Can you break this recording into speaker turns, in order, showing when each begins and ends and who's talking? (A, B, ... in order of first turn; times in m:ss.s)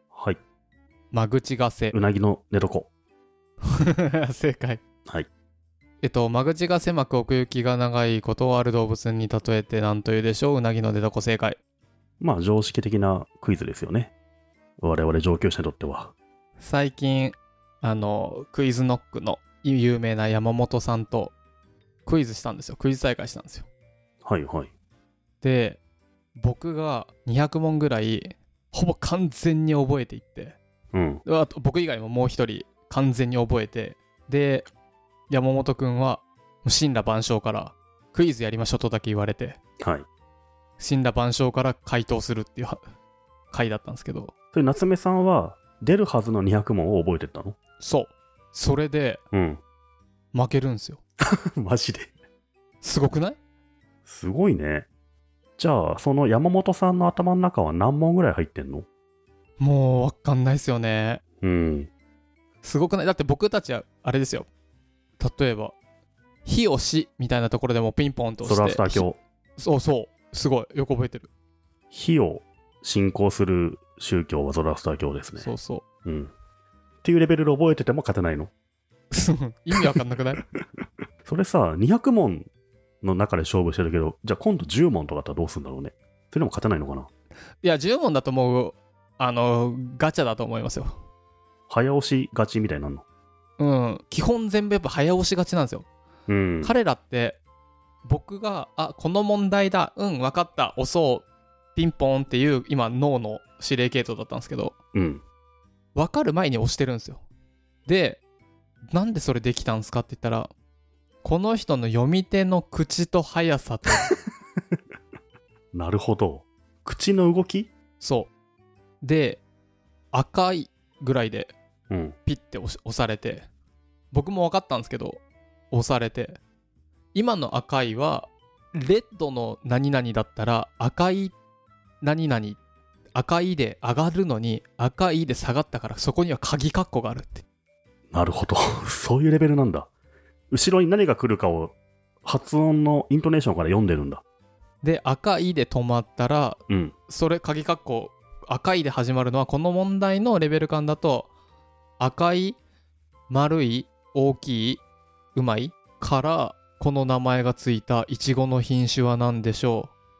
0:00.1-0:00.4 A
0:01.1-0:02.0 B
0:01.9-0:02.9 A
0:03.8-0:04.8 B
0:06.0-0:11.6 B
0:12.2-0:14.1 A
0:14.8-0:16.1 A
0:16.6-0:21.4 B
0:22.0-0:23.7 B
0:24.2-0:24.7 A
0:25.4-0:25.8 B
0:26.4-0:30.6 B
0:30.9-0:31.2 A
0:31.2-0:34.7 B
0:35.3-0:39.6 B
0:39.8-0:40.1 A
0:40.8-0:42.8 B
0:43.5-0:44.3 B
0:44.5-0:47.6 A
0:47.8-0:49.2 B
0:49.3-0:49.6 A
0:50.3-0:51.0 B
0:51.2-0:52.1 A
0:52.8-0:53.4 B
0:54.1-0:54.9 A
0:55.6-0:58.9 A
0:59.6-1:01.2 B
1:01.4-1:01.9 A
1:02.6-1:04.5 B
1:05.2-1:05.8 B
1:06.4-1:09.0 B
1:08.4-1:09.2 A
1:09.6-1:11.3 B
1:11.9-1:15.5 A
1:15.4-1:15.8 B
1:16.0-1:16.3 A
1:17.0-1:18.5 A
1:19.1-1:20.4 B
1:21.2-1:22.5 A
1:23.0-1:27.1 A
1:27.6-1:31.0 B
1:31.7-1:33.0 A
1:33.6-1:35.9 B
1:36.3-1:36.8 A
1:36.6-1:37.4 B
1:38.0-1:44.8 B
1:44.9-1:45.2 A
1:46.0-1:47.2 B
1:47.9-1:48.2 B
1:48.9-1:50.5 B
1:51.2-1:54.1 B
1:55.7-1:57.7 A
1:58.0-1:58.3 B
1:59.0-1:59.4 B
2:00.1-2:01.5 B
2:01.9-2:02.2 A
2:02.3-2:03.5 B
2:04.1-2:06.4 B
2:07.1-2:11.4 B
2:12.0-2:12.6 B
2:13.2-2:17.4 B
2:18.1-2:19.9 A
2:20.5-2:24.2 A
2:24.8-2:31.3 B
2:26.7-2:26.9 A
2:32.0-2:32.6 B
2:33.3-2:34.8 B
2:35.4-2:39.9 B